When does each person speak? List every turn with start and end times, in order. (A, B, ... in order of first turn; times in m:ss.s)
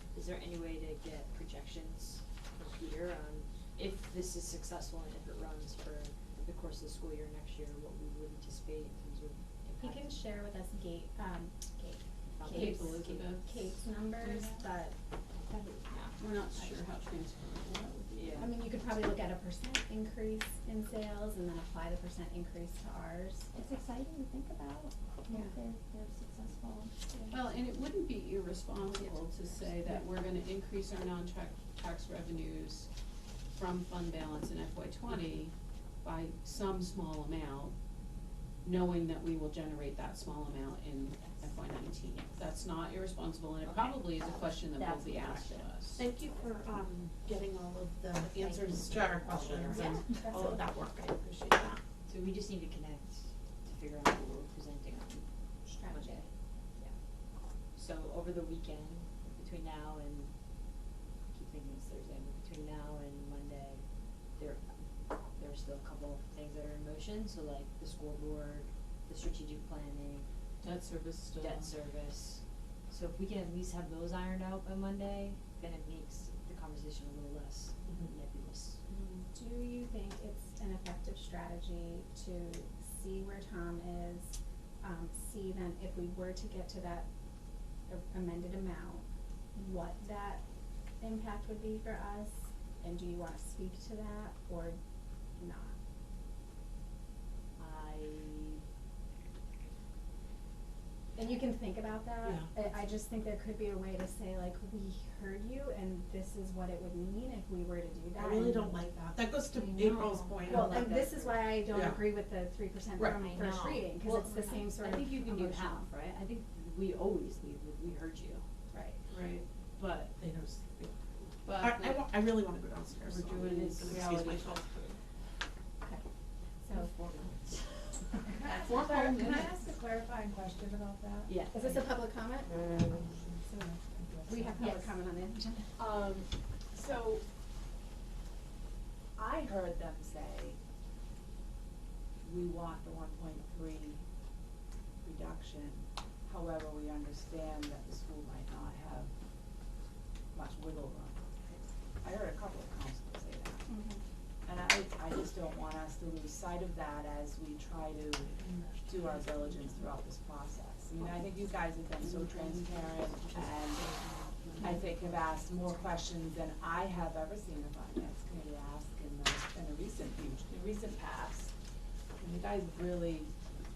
0:00.1-0:10.2 A
0:09.8-0:15.9 B
0:12.3-0:13.1 A
0:12.4-0:14.6 C
0:15.9-0:16.1 A
0:16.2-0:18.6 C
0:18.2-0:18.5 A
0:18.4-0:23.6 B
0:23.6-0:26.9 D
0:25.3-0:25.6 C
0:27.1-0:27.4 B
0:27.3-0:32.9 C
0:33.5-0:37.8 C
0:38.6-0:46.1 C
0:44.2-0:45.7 D
0:46.0-0:51.8 E
0:48.4-0:50.0 A
0:49.7-0:50.6 B
0:52.1-0:55.3 A
0:55.6-0:56.3 B
0:55.8-0:57.0 A
0:57.8-1:00.3 A
1:01.3-1:03.8 A
1:04.4-1:04.7 A
1:05.4-1:10.3 A
1:10.6-1:11.7 C
1:11.4-1:18.8 A
1:18.9-1:19.2 C
1:19.3-1:27.1 B
1:27.9-1:30.4 B
1:31.0-1:34.8 B
1:35.4-1:35.7 B
1:37.6-1:38.6 A
1:41.2-1:48.8 B
1:42.2-1:42.5 E
1:48.2-1:51.1 E
1:49.8-1:51.1 A
1:50.4-1:55.9 B
1:51.7-1:52.1 E
1:53.0-1:53.4 E
1:53.2-1:58.4 A
1:58.7-1:59.0 B
1:59.1-1:59.4 C
1:59.9-2:01.0 E
2:01.4-2:02.2 C
2:01.6-2:04.9 E
2:03.0-2:04.3 C
2:03.4-2:04.4 A
2:06.6-2:06.9 B
2:06.8-2:07.6 A
2:08.3-2:11.3 F
2:08.5-2:09.1 B
2:08.7-2:09.4 C
2:11.3-2:11.9 A
2:11.5-2:12.6 B
2:12.5-2:14.7 F
2:13.5-2:13.7 B
2:14.2-2:15.7 B
2:15.8-2:17.2 F
2:19.2-2:20.6 F
2:22.2-2:24.0 F
2:25.0-2:29.1 F
2:30.3-2:33.7 F
2:33.7-2:34.0 B
2:34.5-2:43.9 F
2:42.0-2:45.1 C
2:44.6-2:51.5 F
2:52.2-2:53.3 F